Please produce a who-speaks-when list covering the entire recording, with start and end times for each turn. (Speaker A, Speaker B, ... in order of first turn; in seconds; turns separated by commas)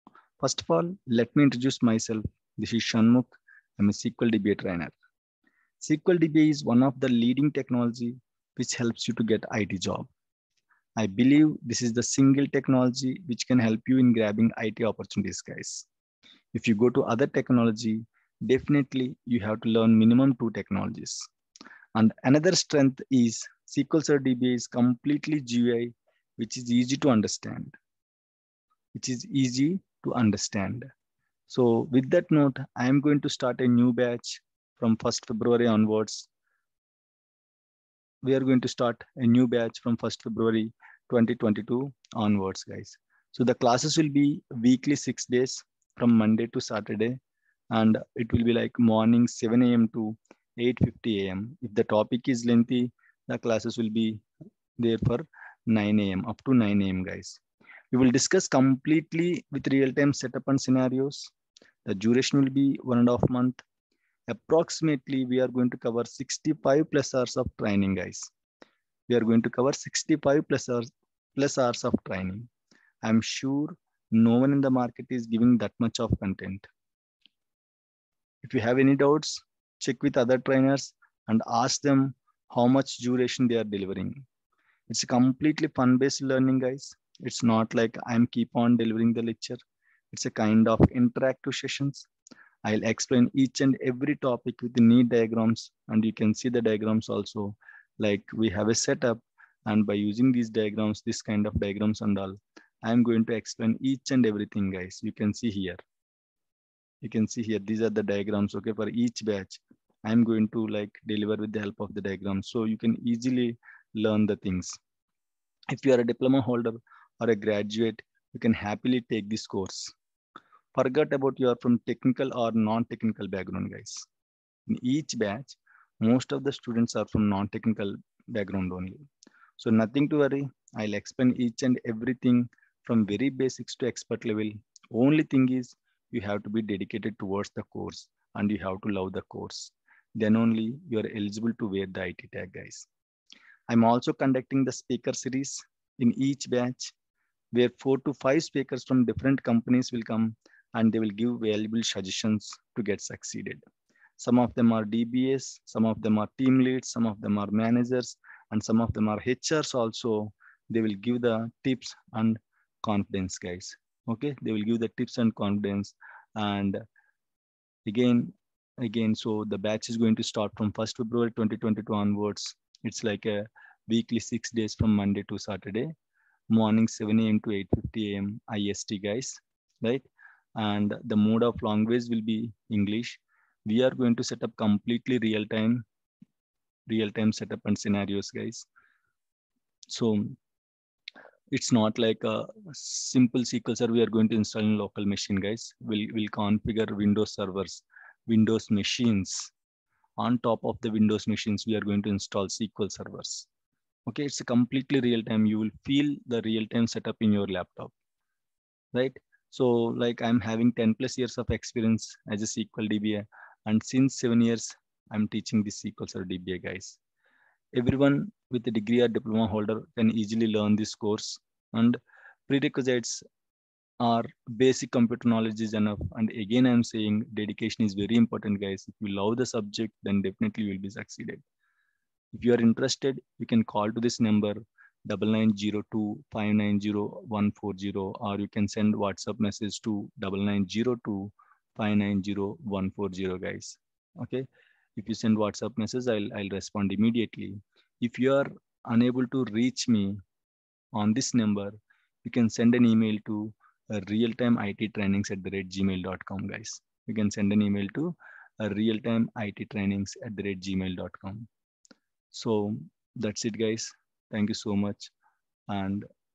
Speaker A: 0.4-4.9, Speaker A: 5.8-10.1, Speaker A: 11.0-15.9, Speaker A: 16.5-21.3, Speaker A: 21.9-27.7, Speaker A: 28.9-30.9, Speaker A: 31.5-36.3, Speaker A: 38.2-47.2, Speaker A: 47.7-54.2, Speaker A: 54.8-57.4, Speaker A: 57.9-61.3, Speaker A: 61.9-63.6, Speaker A: 64.3-68.3, Speaker A: 69.1-72.5, Speaker A: 73.0-76.7, Speaker A: 78.4-84.2, Speaker A: 84.9-89.6, Speaker A: 90.1-92.1, Speaker A: 92.6-105.8, Speaker A: 107.0-114.8, Speaker A: 115.7-120.0, Speaker A: 120.7-124.1, Speaker A: 124.7-129.1, Speaker A: 129.6-142.9, Speaker A: 143.7-146.9, Speaker A: 147.5-153.6, Speaker A: 154.2-166.8, Speaker A: 167.9-175.9, Speaker A: 176.5-180.1, Speaker A: 180.6-185.8, Speaker A: 186.9-188.7, Speaker A: 189.9-190.4, Speaker A: 191.5-199.5, Speaker A: 200.2-203.5, Speaker A: 204.1-207.9, Speaker A: 208.9-217.0, Speaker A: 217.7-223.2, Speaker A: 224.0-231.4, Speaker A: 232.3-250.2, Speaker A: 250.9-261.5, Speaker A: 262.3-265.1, Speaker A: 265.7-266.1